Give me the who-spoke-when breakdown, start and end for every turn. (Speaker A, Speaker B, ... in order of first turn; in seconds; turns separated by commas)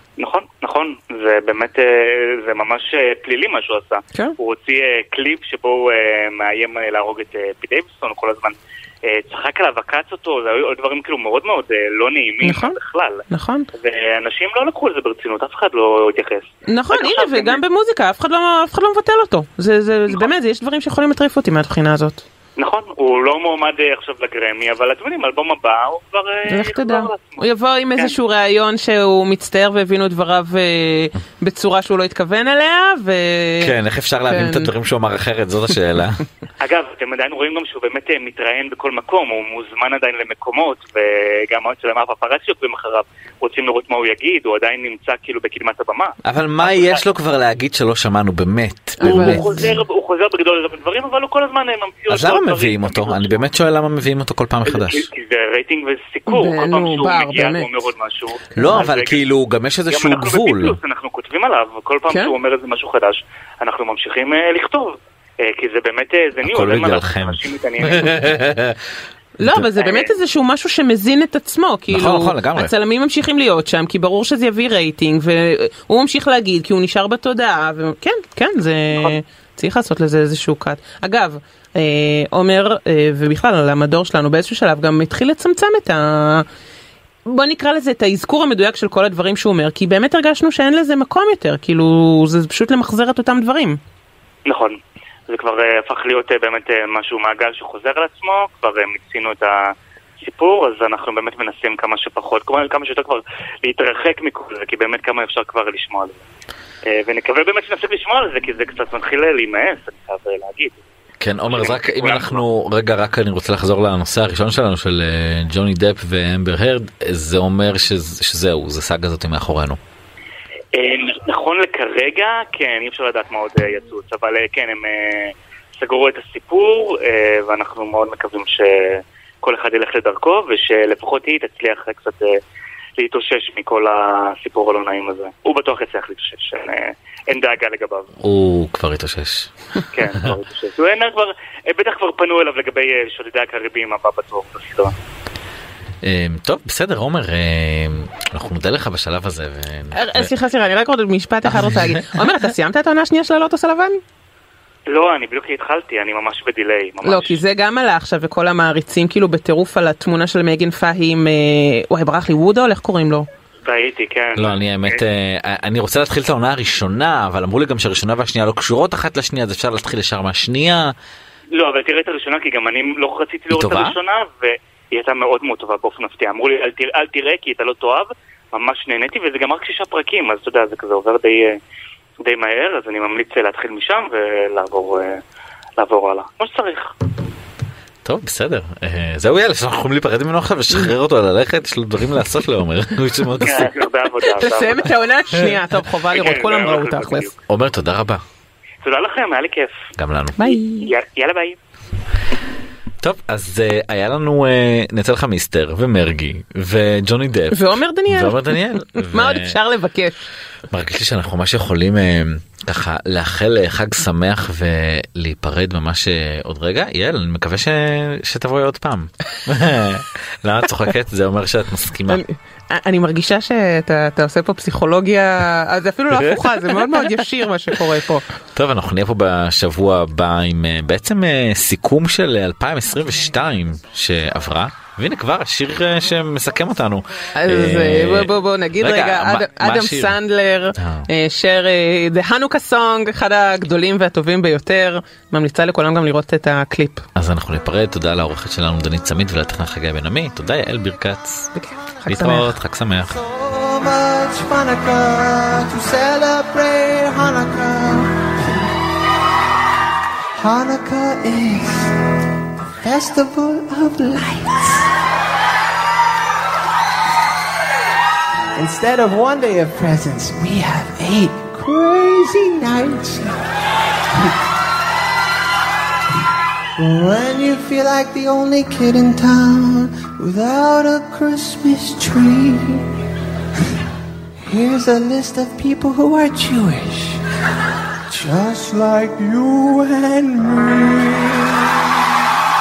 Speaker A: 0.2-13.2, Speaker B: 12.4-12.8, Speaker B: 13.3-13.7, Speaker A: 13.7-17.6, Speaker B: 16.7-22.2, Speaker A: 22.6-27.5, Speaker B: 26.5-33.7, Speaker C: 33.6-36.2, Speaker B: 34.3-34.7, Speaker A: 36.6-47.0, Speaker C: 46.2-49.7, Speaker B: 49.0-49.8, Speaker A: 49.0-53.4, Speaker C: 52.1-55.1, Speaker A: 54.7-59.2, Speaker B: 56.3-57.7, Speaker C: 58.6-60.8, Speaker A: 59.9-68.2, Speaker B: 62.1-62.3, Speaker C: 66.4-68.8, Speaker B: 69.4-86.5, Speaker C: 69.4-69.7, Speaker A: 69.8-70.1, Speaker C: 71.9-72.7, Speaker B: 87.3-93.8, Speaker A: 94.5-106.2, Speaker A: 106.9-110.8, Speaker C: 111.2-119.8, Speaker A: 111.5-112.4, Speaker A: 120.7-132.4, Speaker A: 133.0-138.1, Speaker C: 138.2-139.5, Speaker A: 139.9-144.9, Speaker C: 146.0-150.3, Speaker B: 149.9-154.0, Speaker C: 151.4-152.4, Speaker A: 154.9-157.4, Speaker B: 157.0-163.3, Speaker A: 163.6-165.0, Speaker C: 164.4-170.9, Speaker A: 171.5-181.6, Speaker C: 173.5-174.0, Speaker A: 182.2-185.2, Speaker A: 185.8-186.9, Speaker C: 188.0-193.8, Speaker A: 193.4-195.0, Speaker B: 194.2-197.3, Speaker A: 196.1-197.4, Speaker C: 197.5-198.2, Speaker A: 198.8-199.7, Speaker C: 200.0-200.6, Speaker B: 200.4-200.9, Speaker A: 200.8-201.6, Speaker C: 203.0-209.6, Speaker B: 207.5-210.2, Speaker C: 210.7-222.2, Speaker B: 222.1-228.2, Speaker C: 226.1-227.1, Speaker C: 228.6-240.2, Speaker B: 237.3-247.1, Speaker C: 240.8-241.1, Speaker C: 247.2-251.6, Speaker B: 251.6-252.6, Speaker C: 252.1-253.2, Speaker D: 253.1-258.3, Speaker D: 260.4-261.9, Speaker D: 262.8-264.9, Speaker D: 268.6-273.4, Speaker D: 276.8-282.9, Speaker D: 284.4-287.2, Speaker D: 288.1-291.7